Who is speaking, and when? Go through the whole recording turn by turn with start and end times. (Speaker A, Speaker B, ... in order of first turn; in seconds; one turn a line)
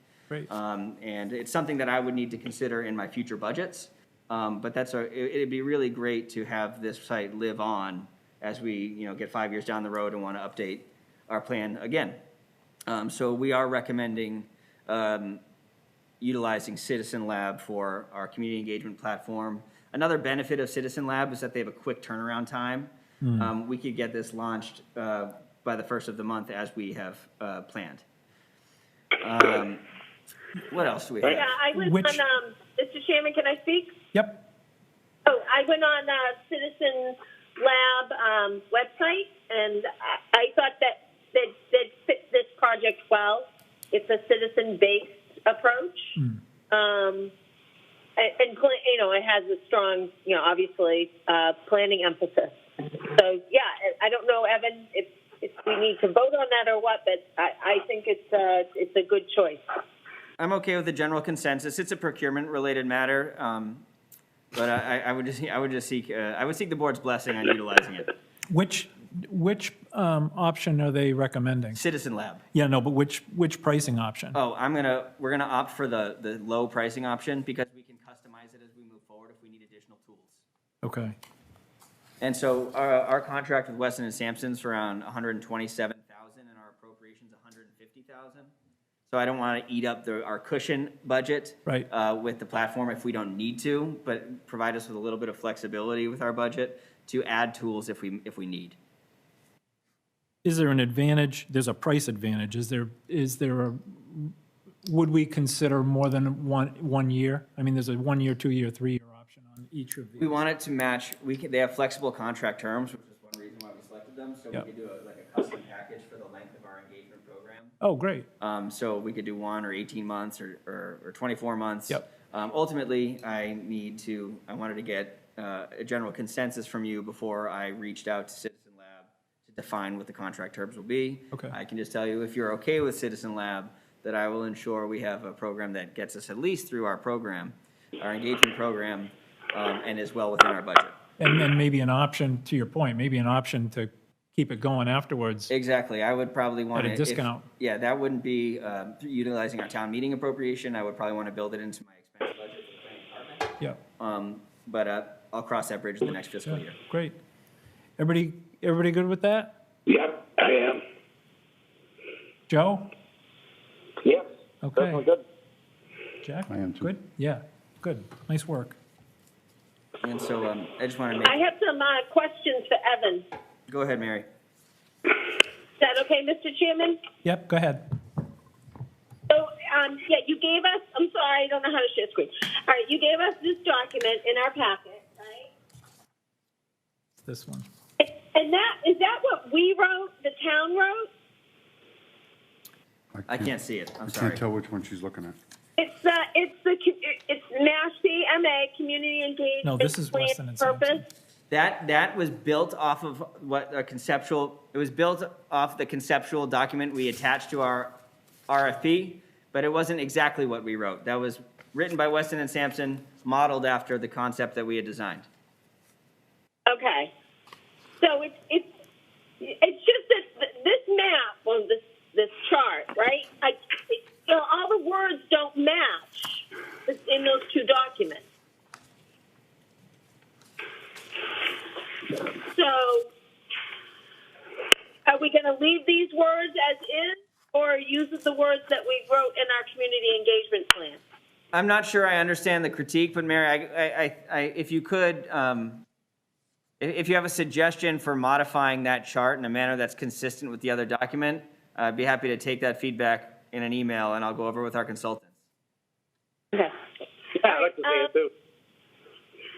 Speaker A: 0.5-12.2
Speaker A: 12.9-15.4
Speaker A: 16.2-28.0
Speaker B: 23.2-23.5
Speaker A: 29.2-29.8
Speaker A: 30.7-31.5
Speaker C: 31.2-33.9
Speaker B: 31.8-32.2
Speaker B: 34.1-34.4
Speaker C: 35.2-46.1
Speaker C: 46.7-47.3
Speaker C: 48.2-59.6
Speaker A: 60.4-63.8
Speaker A: 64.5-68.1
Speaker B: 68.5-71.8
Speaker A: 71.7-72.4
Speaker B: 72.5-74.4
Speaker A: 74.3-80.4
Speaker B: 80.8-81.2
Speaker A: 82.2-88.5
Speaker A: 89.1-98.8
Speaker B: 100.4-110.4
Speaker A: 110.2-117.8
Speaker B: 117.8-118.3
Speaker A: 118.4-141.0
Speaker B: 141.2-145.5
Speaker A: 145.5-156.8
Speaker B: 146.7-147.4
Speaker B: 156.4-157.2
Speaker B: 158.0-159.6
Speaker D: 159.9-160.8
Speaker B: 162.5-162.9
Speaker D: 164.0-165.2
Speaker B: 164.6-165.0
Speaker B: 166.2-168.8
Speaker E: 166.5-166.9
Speaker A: 170.0-171.4
Speaker C: 171.2-173.2
Speaker A: 173.7-174.3
Speaker C: 175.8-177.0
Speaker B: 177.2-177.8
Speaker C: 179.3-185.5
Speaker B: 187.2-187.7
Speaker C: 188.0-191.1
Speaker E: 193.1-193.5
Speaker A: 193.3-194.4
Speaker E: 194.0-195.4
Speaker C: 195.8-201.0
Speaker B: 199.6-201.0
Speaker A: 201.5-207.9
Speaker A: 208.5-215.3
Speaker C: 216.7-217.1
Speaker C: 218.0-218.7
Speaker C: 219.4-228.2
Speaker C: 232.4-233.1
Speaker C: 235.1-241.0
Speaker A: 241.5-245.8
Speaker A: 246.8-255.3
Speaker D: 257.4-258.3
Speaker C: 257.4-258.1